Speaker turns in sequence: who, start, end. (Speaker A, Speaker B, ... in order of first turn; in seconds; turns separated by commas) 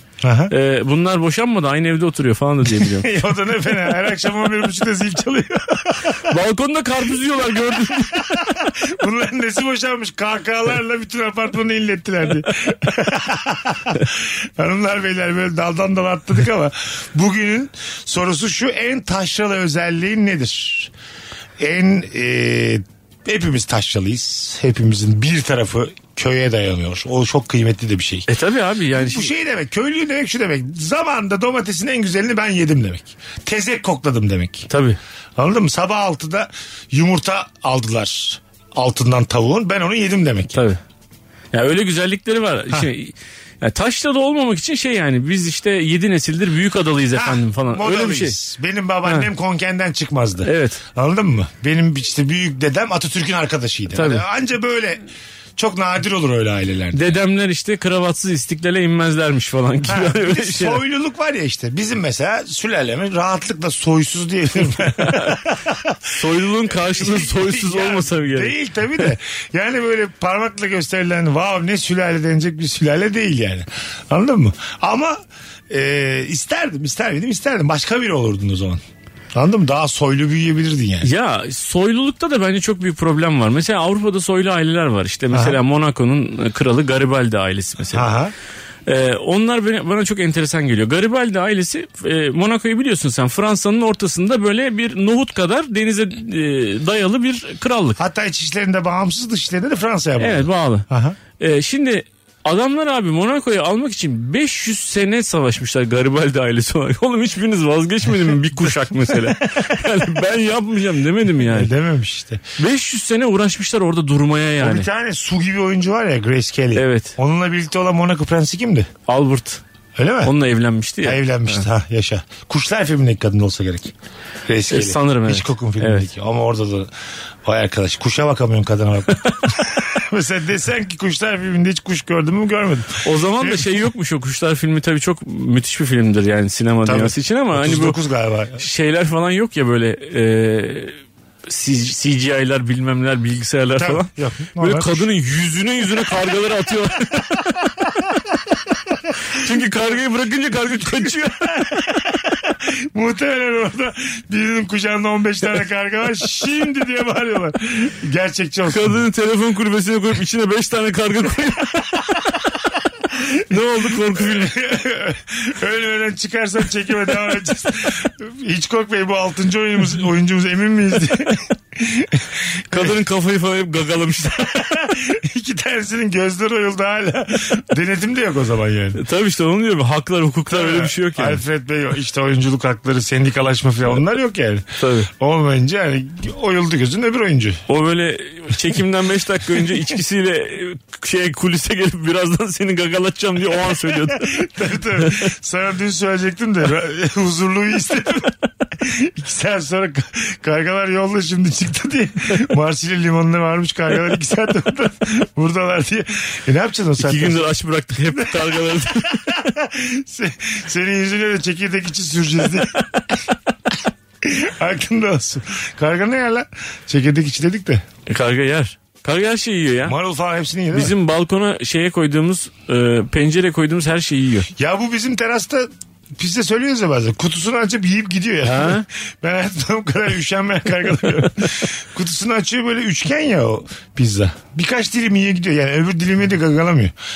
Speaker A: 0.2-0.5, Speaker B: 0.5-3.1, Speaker A: 2.8-6.3, Speaker B: 6.3-8.5, Speaker A: 8.0-20.9, Speaker A: 21.6-28.3, Speaker B: 28.3-29.3, Speaker A: 28.9-34.7, Speaker B: 34.7-35.0, Speaker A: 35.4-40.6, Speaker B: 40.5-40.8, Speaker B: 41.5-48.4, Speaker A: 47.1-55.0, Speaker B: 50.4-50.8, Speaker B: 53.9-54.2, Speaker A: 55.6-57.2, Speaker B: 56.9-60.8, Speaker A: 59.8-66.0, Speaker B: 64.8-65.4, Speaker B: 66.0-68.5, Speaker A: 66.7-78.8, Speaker A: 79.3-81.1, Speaker B: 81.0-88.1, Speaker A: 85.3-85.6, Speaker A: 87.9-88.3, Speaker B: 88.9-98.0, Speaker A: 98.0-101.2, Speaker B: 100.2-100.9, Speaker B: 101.4-111.7, Speaker A: 111.4-112.4, Speaker B: 112.6-114.9, Speaker A: 114.6-118.9, Speaker B: 116.8-117.2, Speaker B: 119.1-119.6, Speaker A: 120.0-120.3, Speaker B: 120.2-121.7, Speaker A: 121.0-123.9, Speaker A: 124.5-126.9, Speaker B: 124.7-126.1, Speaker A: 127.4-133.7, Speaker B: 133.0-138.0, Speaker A: 136.8-138.6, Speaker B: 138.6-148.0, Speaker A: 143.8-145.1, Speaker B: 149.3-151.9, Speaker A: 151.0-159.0, Speaker B: 158.7-162.3, Speaker B: 163.5-164.5, Speaker A: 163.9-172.9, Speaker B: 172.7-174.7, Speaker A: 174.6-179.0, Speaker B: 179.0-181.4, Speaker A: 180.5-187.6, Speaker B: 184.8-185.1, Speaker B: 187.7-194.5, Speaker A: 193.9-207.5, Speaker B: 195.0-195.2, Speaker B: 207.0-209.5, Speaker A: 208.1-212.8, Speaker A: 213.7-217.8, Speaker B: 218.1-220.0, Speaker A: 219.8-220.9, Speaker B: 220.7-224.5, Speaker A: 224.6-236.9, Speaker B: 228.4-228.9